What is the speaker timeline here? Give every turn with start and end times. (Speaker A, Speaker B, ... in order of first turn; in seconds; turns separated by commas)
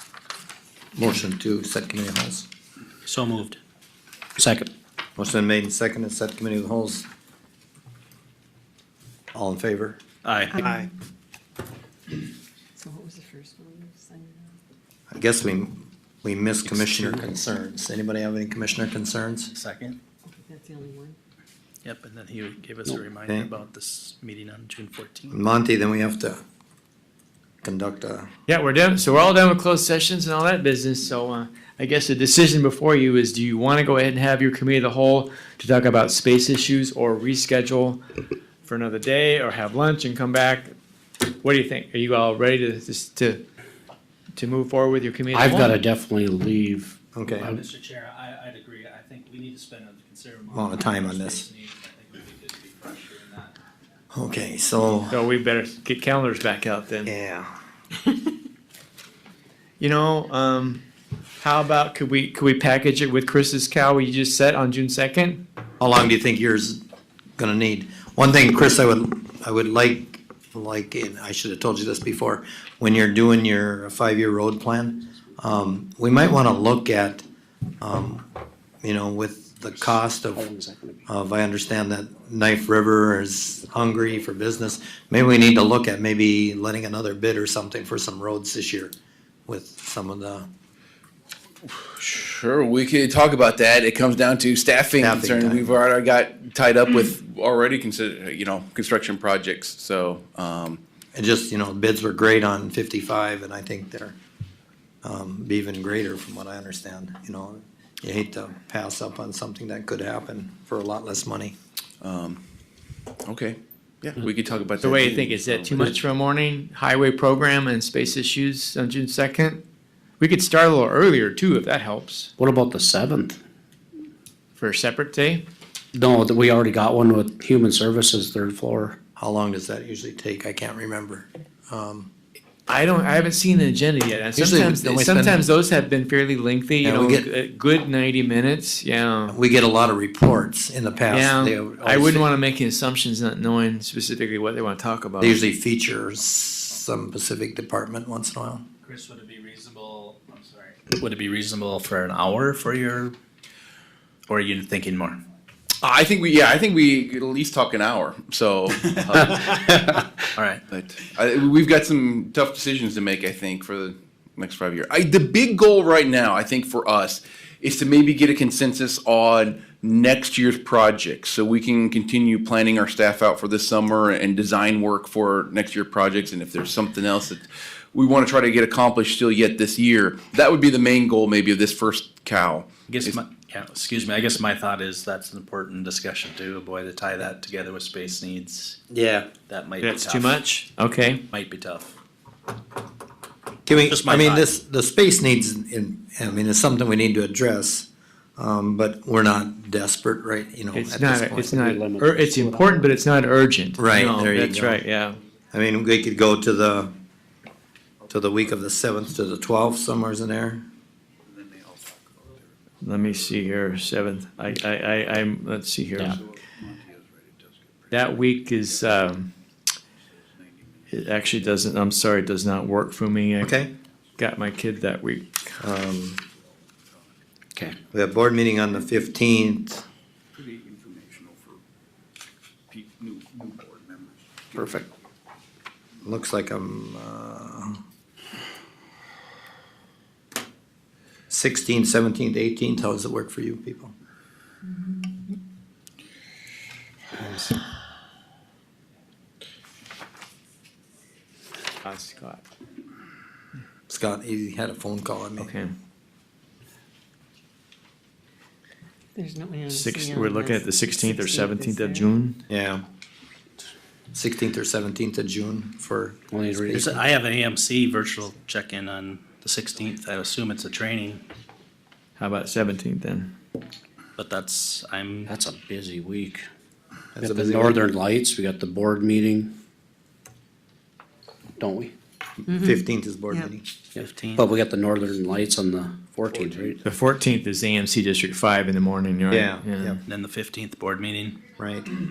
Speaker A: 0.9-2.5, Speaker B: 3.0-3.6, Speaker C: 4.4-4.7, Speaker A: 5.2-7.0, Speaker A: 9.3-10.0, Speaker B: 10.2-10.6, Speaker A: 10.5-10.9, Speaker D: 12.8-14.5, Speaker A: 15.1-19.5, Speaker C: 16.7-17.2, Speaker B: 19.5-20.0, Speaker D: 20.3-21.2, Speaker B: 21.8-25.4, Speaker A: 25.3-26.4, Speaker A: 27.6-28.3, Speaker E: 28.5-38.0, Speaker E: 38.6-40.7, Speaker E: 41.3-43.4, Speaker E: 44.3-45.8, Speaker C: 45.3-47.6, Speaker A: 47.1-47.5, Speaker B: 47.4-53.5, Speaker A: 50.5-51.4, Speaker A: 54.1-55.2, Speaker E: 55.1-57.1, Speaker A: 57.0-57.5, Speaker E: 59.8-60.8, Speaker E: 61.4-65.4, Speaker A: 65.8-66.8, Speaker A: 67.4-77.2, Speaker A: 77.8-78.2, Speaker A: 78.8-80.4, Speaker C: 80.3-81.0, Speaker A: 81.1-88.9, Speaker A: 89.5-90.5, Speaker F: 91.6-100.8, Speaker A: 95.0-95.8, Speaker A: 101.1-104.2, Speaker A: 105.0-111.5, Speaker F: 112.0-112.4, Speaker F: 113.2-115.8, Speaker E: 114.8-119.6, Speaker E: 120.2-122.3, Speaker C: 122.4-123.4, Speaker E: 124.5-125.4, Speaker C: 125.9-129.0, Speaker A: 129.2-132.1, Speaker E: 132.7-139.4, Speaker A: 134.3-135.4, Speaker A: 136.8-137.3, Speaker A: 139.3-142.3, Speaker E: 141.1-145.4, Speaker A: 145.2-148.6, Speaker B: 148.8-153.1, Speaker B: 154.3-155.2, Speaker F: 155.8-159.9, Speaker B: 160.3-160.6, Speaker F: 160.7-183.2, Speaker B: 182.9-188.8, Speaker A: 188.9-189.3, Speaker B: 189.5-190.4, Speaker E: 189.8-191.2, Speaker B: 191.3-191.9, Speaker A: 193.7-201.5, Speaker B: 193.8-194.5, Speaker E: 200.7-205.2, Speaker C: 201.4-202.9, Speaker A: 203.8-204.8, Speaker A: 205.5-206.9, Speaker A: 208.1-210.7, Speaker G: 211.4-211.8, Speaker E: 212.8-216.2, Speaker E: 217.9-219.3, Speaker E: 220.9-223.6, Speaker A: 223.4-223.7, Speaker E: 224.2-225.5, Speaker A: 225.6-226.2, Speaker A: 227.9-229.8, Speaker G: 230.4-231.4, Speaker G: 233.0-234.5, Speaker A: 236.0-237.8, Speaker A: 241.3-243.9, Speaker E: 251.8-252.4, Speaker A: 253.9-255.5, Speaker E: 255.4-255.7, Speaker D: 259.1-262.1, Speaker E: 259.7-262.4, Speaker A: 262.5-262.8, Speaker A: 264.1-266.9, Speaker C: 266.3-266.9, Speaker B: 266.7-271.2, Speaker E: 272.2-273.3, Speaker B: 274.2-275.3, Speaker C: 275.2-276.4, Speaker A: 277.1-277.8, Speaker C: 277.2-279.5, Speaker C: 281.6-281.9, Speaker A: 282.4-283.6, Speaker D: 282.5-283.5, Speaker C: 283.9-286.8, Speaker B: 283.9-284.5, Speaker E: 286.8-290.0, Speaker A: 289.3-290.0, Speaker B: 290.1-291.4, Speaker A: 291.6-291.9